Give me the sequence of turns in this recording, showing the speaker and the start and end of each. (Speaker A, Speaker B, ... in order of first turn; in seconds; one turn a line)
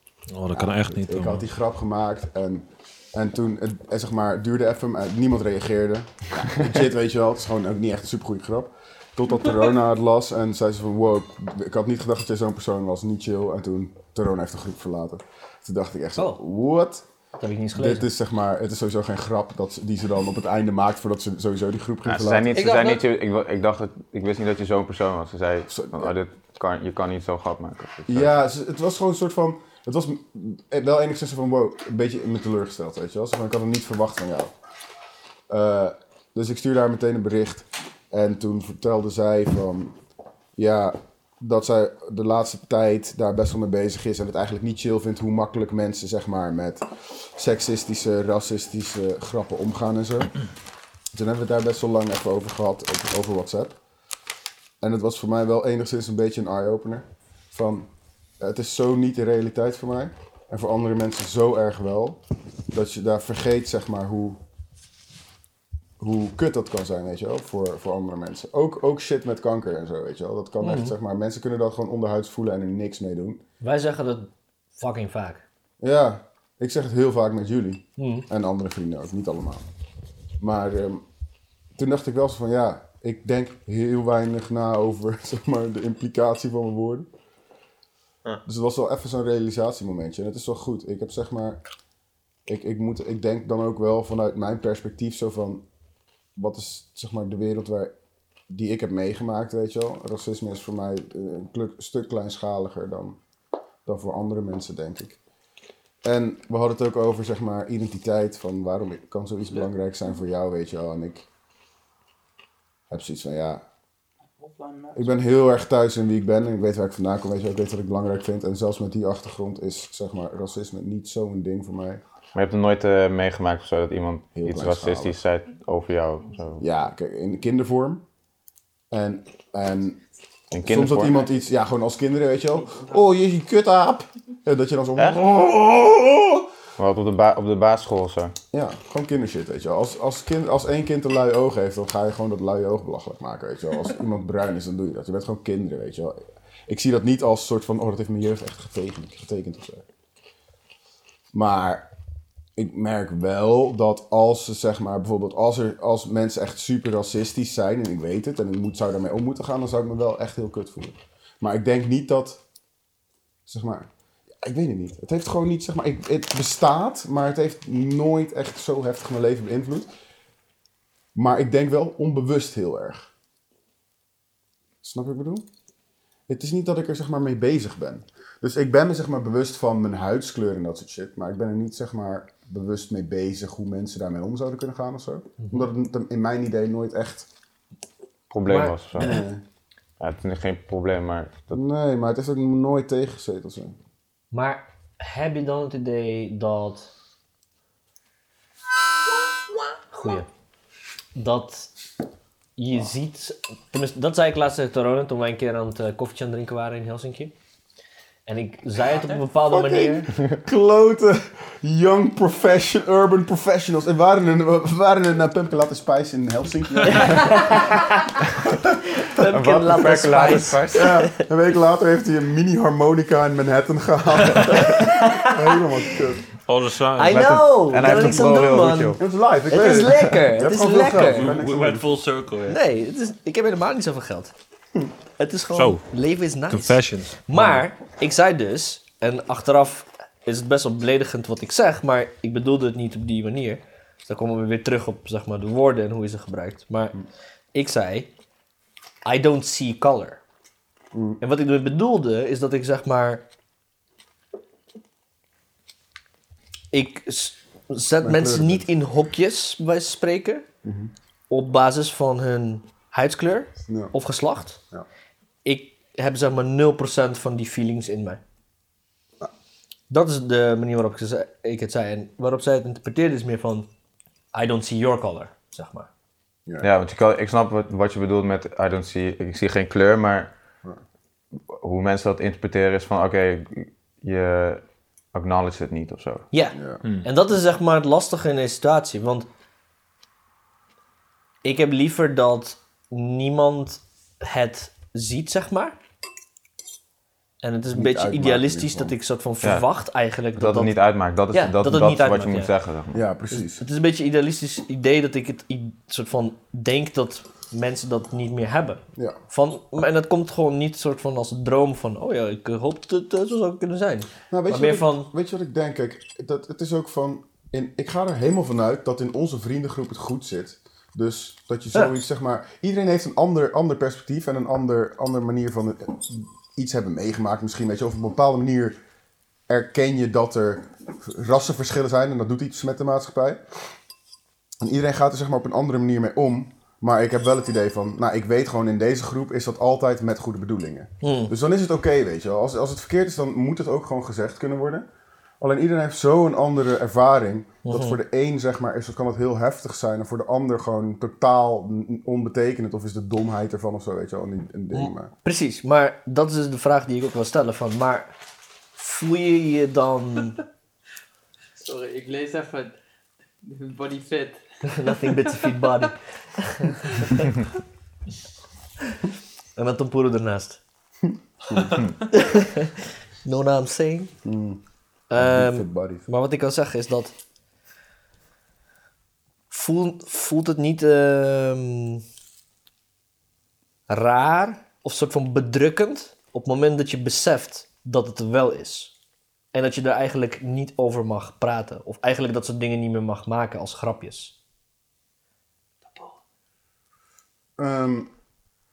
Speaker A: 0.3-1.5
Speaker B: 0.5-17.0
Speaker C: 16.1-16.4
Speaker C: 17.4-18.1
Speaker B: 17.7-22.5
Speaker D: 22.0-28.4
Speaker E: 22.5-23.0
Speaker B: 25.7-26.1
Speaker B: 28.1-34.5
Speaker B: 35.5-40.0
Speaker B: 40.5-50.5
Speaker B: 51.1-53.8
Speaker B: 54.8-62.2
Speaker B: 62.7-64.4
Speaker B: 66.0-73.4
Speaker C: 70.6-70.9
Speaker C: 73.6-75.4
Speaker B: 75.8-79.7
Speaker C: 78.0-78.3
Speaker B: 80.4-81.0
Speaker B: 81.8-87.1
Speaker B: 88.4-91.6
Speaker B: 92.5-95.6
Speaker B: 96.3-97.9
Speaker B: 98.5-103.2
Speaker B: 103.8-105.2
Speaker B: 106.0-111.2
Speaker B: 112.9-113.6
Speaker E: 114.4-115.2
Speaker B: 114.9-122.0
Speaker D: 122.3-126.7
Speaker B: 124.3-125.2
Speaker B: 126.6-128.0
Speaker B: 128.9-130.0
Speaker D: 130.5-131.3
Speaker B: 130.6-136.5
Speaker D: 134.9-135.2
Speaker D: 136.8-138.3
Speaker B: 138.5-149.8
Speaker B: 151.3-151.9
Speaker B: 152.6-162.4
Speaker B: 163.5-163.9
Speaker B: 164.4-169.9
Speaker B: 171.1-173.1
Speaker B: 174.8-175.4
Speaker B: 176.3-187.3
Speaker C: 185.4-185.7
Speaker D: 188.3-189.2
Speaker C: 188.4-189.1
Speaker B: 189.0-189.4
Speaker D: 190.0-191.6
Speaker B: 191.5-193.8
Speaker C: 194.3-196.9
Speaker C: 199.9-200.3
Speaker C: 201.1-201.7
Speaker C: 202.6-207.3
Speaker C: 208.2-210.1
Speaker B: 209.4-217.6
Speaker C: 216.9-217.7
Speaker C: 219.0-221.1
Speaker D: 219.2-221.1
Speaker B: 220.7-226.3
Speaker C: 224.5-225.4
Speaker A: 226.4-227.4
Speaker C: 227.0-231.3
Speaker D: 227.0-229.0
Speaker B: 227.8-228.4
Speaker B: 229.0-232.0
Speaker A: 230.9-232.6
Speaker C: 232.5-234.3
Speaker C: 235.2-246.9
Speaker A: 235.5-235.8
Speaker A: 236.5-237.5
Speaker C: 247.5-248.1
Speaker C: 249.0-250.2
Speaker B: 250.9-251.2
Speaker C: 251.2-253.2
Speaker C: 256.7-260.4
Speaker B: 258.0-258.7
Speaker B: 260.6-260.9
Speaker C: 261.3-264.6
Speaker B: 263.7-263.9
Speaker C: 265.4-268.2
Speaker C: 269.9-273.7
Speaker C: 274.3-275.9
Speaker D: 276.6-280.3
Speaker D: 281.5-284.6
Speaker D: 285.1-286.2
Speaker C: 286.3-289.3
Speaker B: 286.5-286.8
Speaker C: 291.4-295.8
Speaker C: 297.4-300.8
Speaker B: 297.7-298.9
Speaker D: 299.4-299.7
Speaker D: 300.3-303.0
Speaker C: 301.3-302.5
Speaker B: 302.9-303.6
Speaker C: 303.3-315.1
Speaker B: 314.3-328.8
Speaker B: 329.5-333.4
Speaker B: 334.6-344.9
Speaker C: 341.0-341.3
Speaker B: 345.4-355.1
Speaker C: 347.6-348.0
Speaker C: 354.7-358.1
Speaker C: 358.8-360.4
Speaker E: 361.6-362.7
Speaker E: 363.4-365.9
Speaker C: 364.7-367.3
Speaker C: 369.6-370.6
Speaker B: 371.0-371.9
Speaker C: 372.1-374.1
Speaker B: 374.2-374.6
Speaker C: 375.1-377.1
Speaker B: 375.1-376.1
Speaker C: 379.5-382.0
Speaker C: 383.9-388.9
Speaker C: 389.5-394.3
Speaker B: 397.6-398.1